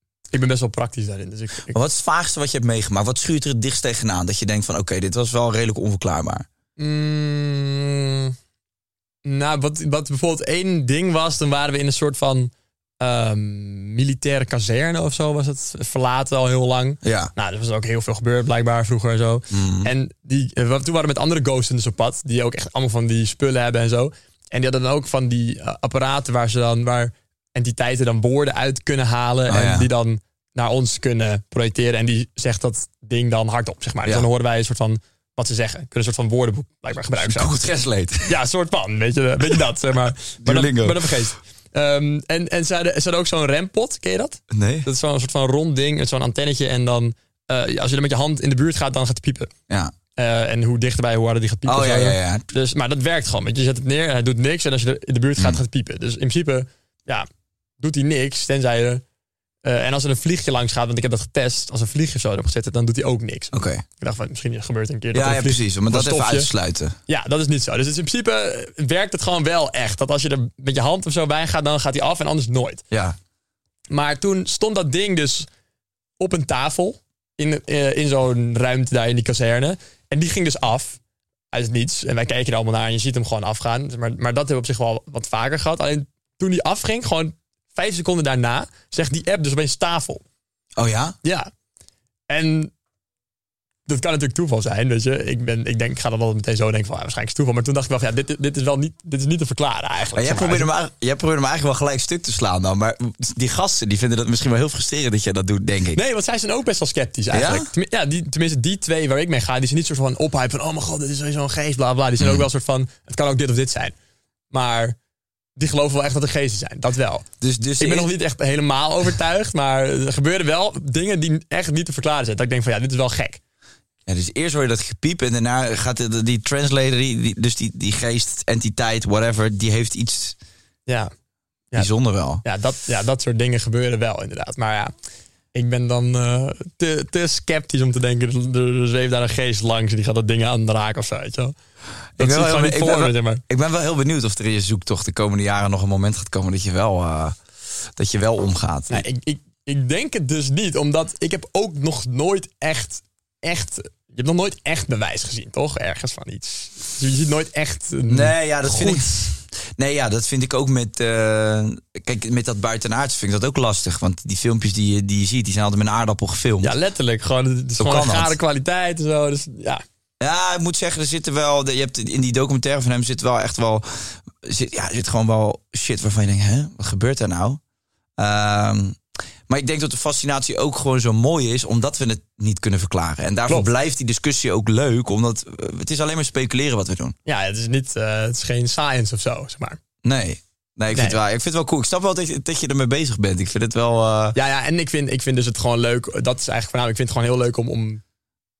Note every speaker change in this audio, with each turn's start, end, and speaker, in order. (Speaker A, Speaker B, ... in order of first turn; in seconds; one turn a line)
Speaker A: 0.3-1.8
Speaker B: 1.7-6.5
Speaker A: 6.8-8.3
Speaker A: 9.2-37.5
Speaker B: 17.0-17.3
Speaker B: 19.5-19.9
Speaker B: 29.5-29.9
Speaker B: 37.2-38.3
Speaker A: 38.2-49.5
Speaker B: 40.4-41.1
Speaker B: 44.5-44.9
Speaker A: 50.2-57.3
Speaker B: 51.6-52.5
Speaker A: 57.8-59.0
Speaker A: 59.6-66.5
Speaker B: 63.5-63.8
Speaker B: 65.1-67.0
Speaker A: 67.1-72.8
Speaker B: 72.9-73.2
Speaker A: 73.9-75.5
Speaker A: 76.2-81.0
Speaker A: 81.5-90.2
Speaker B: 90.8-91.2
Speaker A: 91.2-91.5
Speaker A: 92.3-92.7
Speaker A: 93.9-100.7
Speaker B: 100.1-106.0
Speaker A: 105.9-113.9
Speaker B: 107.3-107.7
Speaker B: 112.2-112.5
Speaker A: 114.5-115.0
Speaker A: 115.6-117.2
Speaker B: 117.4-118.1
Speaker A: 117.8-123.4
Speaker B: 124.0-130.3
Speaker B: 131.8-132.4
Speaker A: 132.4-134.9
Speaker A: 135.5-141.5
Speaker B: 142.2-147.4
Speaker A: 142.2-143.4
Speaker B: 147.9-149.0
Speaker A: 148.9-159.1
Speaker B: 158.1-166.8
Speaker A: 166.6-169.8
Speaker B: 167.8-168.3
Speaker B: 170.2-177.6
Speaker B: 178.2-187.1
Speaker A: 187.2-189.8
Speaker B: 190.0-194.4
Speaker A: 194.3-198.0